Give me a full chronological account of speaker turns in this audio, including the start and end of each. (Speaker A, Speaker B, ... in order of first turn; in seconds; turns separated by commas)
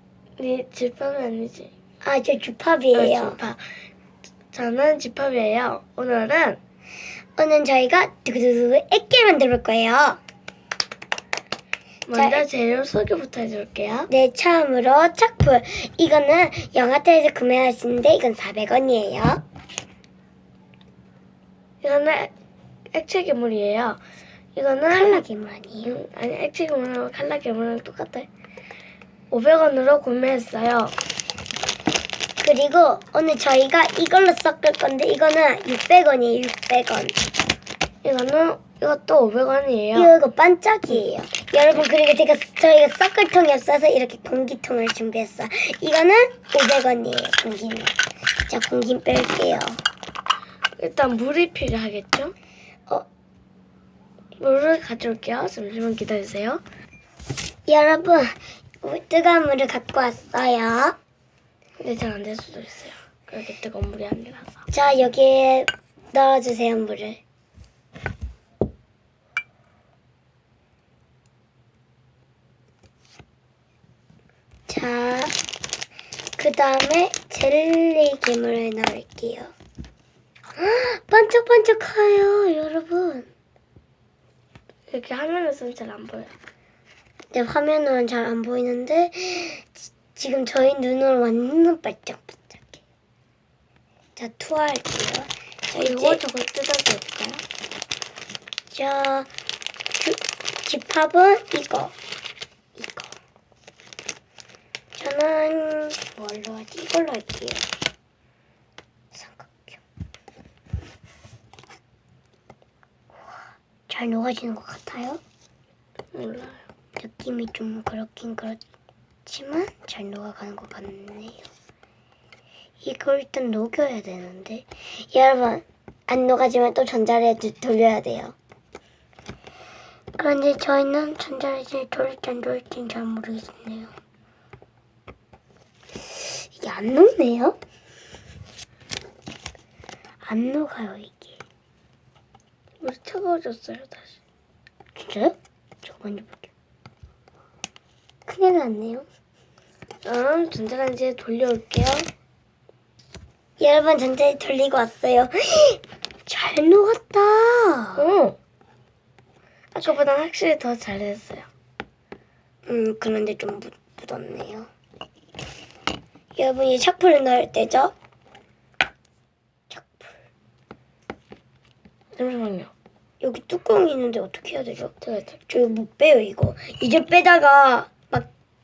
Speaker A: 0.4-1.7, Speaker B: 2.0-3.4, Speaker A: 2.9-3.6, Speaker A: 4.5-6.6, Speaker B: 7.4-10.2, Speaker A: 12.1-14.1, Speaker B: 12.1-12.4, Speaker B: 14.1-19.4, Speaker A: 21.8-22.3, Speaker A: 22.9-24.0, Speaker A: 24.6-25.2, Speaker B: 24.9-25.9, Speaker A: 25.8-28.3, Speaker A: 29.3-31.0, Speaker B: 32.4-37.2, Speaker A: 38.0-40.1, Speaker B: 40.0-49.8, Speaker A: 50.8-52.3, Speaker A: 54.4-56.6, Speaker B: 57.7-61.0, Speaker A: 61.8-64.7, Speaker B: 64.7-67.2, Speaker B: 74.7-75.4, Speaker B: 76.4-79.5, Speaker B: 80.6-83.3, Speaker A: 84.9-86.3, Speaker B: 87.3-92.8, Speaker B: 94.2-96.2, Speaker A: 95.8-97.5, Speaker B: 98.7-99.3, Speaker B: 100.0-102.0, Speaker B: 102.8-103.2, Speaker B: 105.0-107.7, Speaker B: 109.1-109.8, Speaker B: 113.9-115.2, Speaker A: 116.1-116.7, Speaker B: 117.0-118.6, Speaker B: 119.3-121.5, Speaker B: 122.8-128.3, Speaker B: 130.2-133.9, Speaker B: 136.2-137.6, Speaker B: 140.2-141.4, Speaker A: 142.8-144.2, Speaker B: 145.0-146.5, Speaker B: 148.3-149.1, Speaker A: 150.0-152.1, Speaker B: 153.6-158.0, Speaker A: 158.0-158.4, Speaker A: 159.7-161.5, Speaker B: 162.7-164.7, Speaker B: 166.3-167.9, Speaker B: 169.7-170.2, Speaker A: 172.2-172.7, Speaker B: 173.2-178.3, Speaker A: 175.0-175.4